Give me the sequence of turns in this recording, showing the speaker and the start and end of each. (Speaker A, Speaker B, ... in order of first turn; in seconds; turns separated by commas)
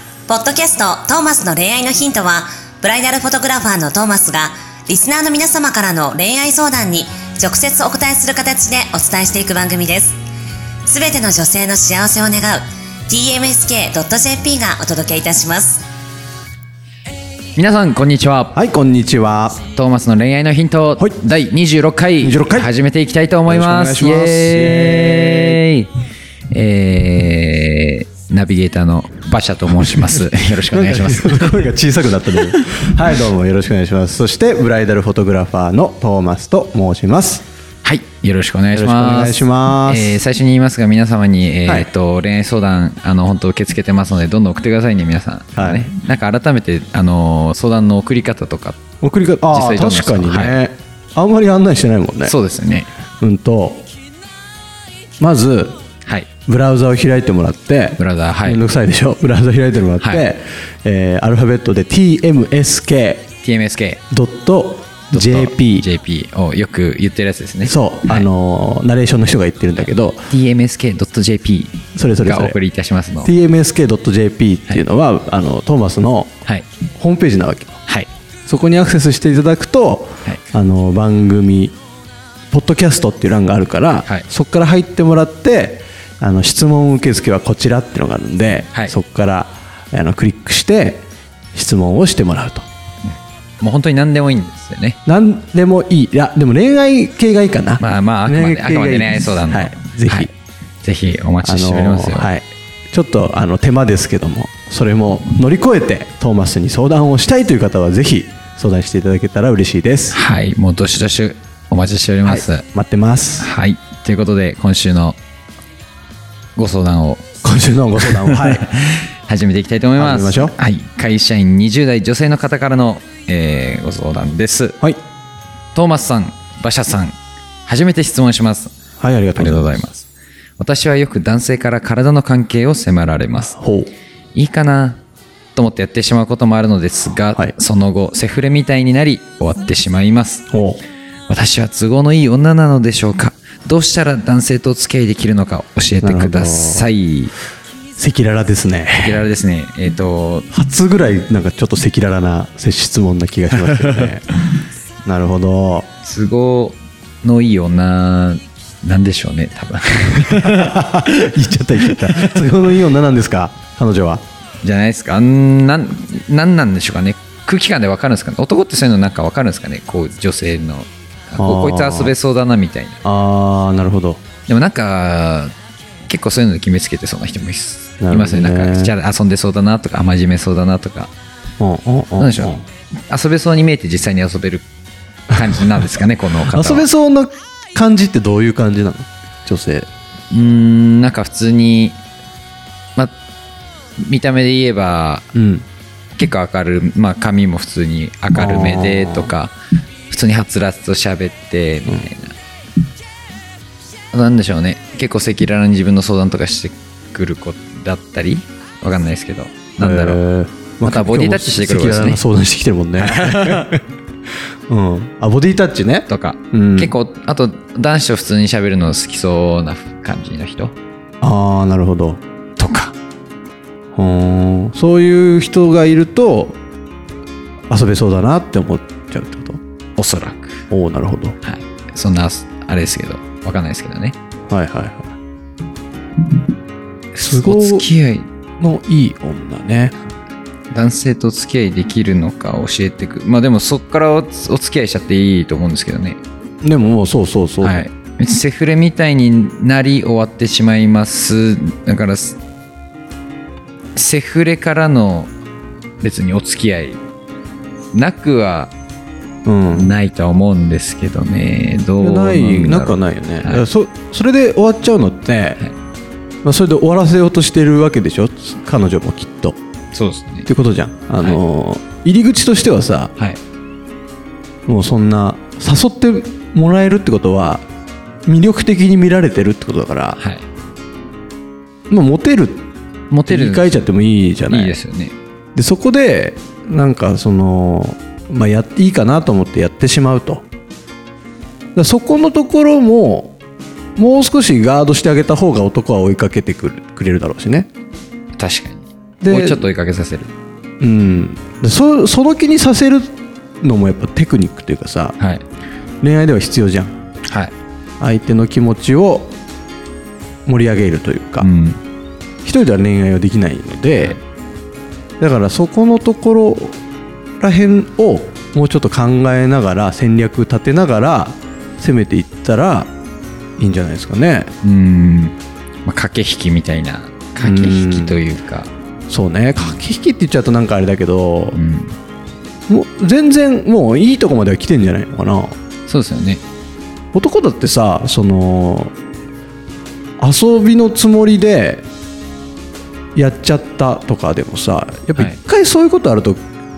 Speaker A: 0.3-10.2, Speaker A: 10.8-15.8, Speaker B: 17.5-18.6, Speaker C: 18.5-19.6, Speaker B: 19.6-25.9, Speaker C: 22.2-22.7, Speaker C: 23.5-25.6, Speaker B: 26.5-31.7, Speaker C: 29.8-37.4, Speaker B: 37.8-48.8, Speaker C: 38.7-40.2, Speaker C: 45.6-45.9, Speaker C: 49.0-52.3, Speaker B: 49.5-50.6, Speaker B: 52.2-52.9, Speaker C: 53.2-53.9, Speaker C: 55.2-55.8, Speaker C: 56.5-63.3, Speaker B: 58.0-58.6, Speaker B: 60.0-60.2, Speaker B: 63.4-64.0, Speaker C: 64.1-65.9, Speaker B: 65.1-68.3, Speaker C: 67.6-70.2, Speaker B: 70.3-73.3, Speaker C: 72.0-72.6, Speaker C: 73.2-76.3, Speaker C: 77.0-77.8, Speaker C: 78.5-81.8, Speaker C: 82.5-92.6, Speaker B: 93.0-95.0, Speaker C: 95.0-100.3, Speaker B: 97.8-100.3, Speaker B: 100.8-102.3, Speaker C: 101.4-110.2, Speaker B: 110.1-112.6, Speaker C: 112.2-113.5, Speaker B: 113.4-115.2, Speaker B: 116.5-117.3, Speaker C: 117.4-118.7, Speaker B: 118.0-124.8, Speaker C: 120.0-120.5, Speaker B: 125.7-128.7, Speaker C: 129.0-129.8, Speaker B: 129.3-133.6, Speaker C: 133.5-133.9, Speaker B: 134.3-135.0, Speaker B: 135.6-140.4, Speaker C: 140.5-140.8, Speaker B: 141.3-147.3, Speaker C: 146.0-146.9, Speaker C: 148.0-149.2, Speaker B: 149.0-150.5, Speaker C: 150.5-154.2, Speaker B: 153.7-154.1, Speaker C: 155.0-155.9, Speaker B: 156.0-162.5, Speaker C: 160.2-164.2, Speaker B: 164.6-173.0, Speaker C: 171.4-172.1, Speaker C: 173.0-174.2, Speaker B: 174.5-175.5, Speaker B: 176.1-181.1, Speaker C: 178.0-178.9, Speaker C: 181.6-182.6, Speaker B: 182.2-184.7, Speaker C: 185.3-185.9, Speaker B: 185.3-186.9, Speaker C: 186.4-189.9, Speaker B: 190.3-192.0, Speaker B: 194.0-195.3, Speaker C: 195.3-195.7, Speaker B: 196.2-199.6, Speaker C: 198.3-199.3, Speaker B: 200.1-202.3, Speaker B: 204.1-210.2, Speaker C: 209.8-213.8, Speaker B: 210.8-212.2, Speaker B: 213.0-213.7, Speaker C: 214.7-216.9, Speaker B: 216.1-220.7, Speaker C: 221.2-222.2, Speaker B: 222.6-222.9, Speaker C: 223.9-226.6, Speaker C: 227.7-229.6, Speaker B: 230.0-230.6, Speaker C: 230.7-231.3, Speaker B: 231.4-234.2, Speaker C: 234.5-235.1, Speaker B: 237.1-238.3, Speaker C: 237.2-237.9, Speaker C: 238.6-239.9, Speaker B: 240.7-246.2, Speaker C: 246.6-247.8, Speaker B: 247.6-252.4, Speaker B: 253.9-255.3, Speaker B: 256.0-257.0, Speaker B: 257.9-258.7, Speaker C: 259.4-259.9, Speaker B: 259.7-263.7, Speaker C: 262.0-265.6, Speaker C: 266.4-269.6, Speaker B: 269.9-270.5, Speaker C: 270.4-273.1, Speaker C: 274.7-277.6, Speaker C: 278.2-280.2, Speaker B: 280.1-280.4, Speaker C: 281.9-282.7, Speaker B: 283.1-283.9, Speaker C: 283.2-284.8, Speaker B: 284.4-285.1, Speaker C: 285.5-290.4, Speaker C: 291.7-293.4, Speaker C: 294.0-297.7, Speaker B: 298.4-300.3, Speaker C: 299.2-299.7, Speaker C: 300.8-305.2, Speaker B: 305.2-305.4, Speaker C: 306.0-306.9, Speaker B: 307.3-307.5, Speaker C: 308.0-309.3, Speaker C: 310.4-311.5, Speaker B: 311.4-311.8, Speaker C: 312.4-314.2, Speaker C: 315.2-316.8, Speaker C: 317.4-322.9, Speaker C: 323.6-324.5, Speaker B: 324.6-328.7, Speaker C: 327.4-328.2, Speaker C: 329.1-331.6, Speaker B: 331.5-331.9, Speaker C: 332.7-335.5, Speaker B: 335.9-336.4, Speaker C: 337.1-338.9, Speaker C: 340.2-341.8, Speaker C: 343.1-346.4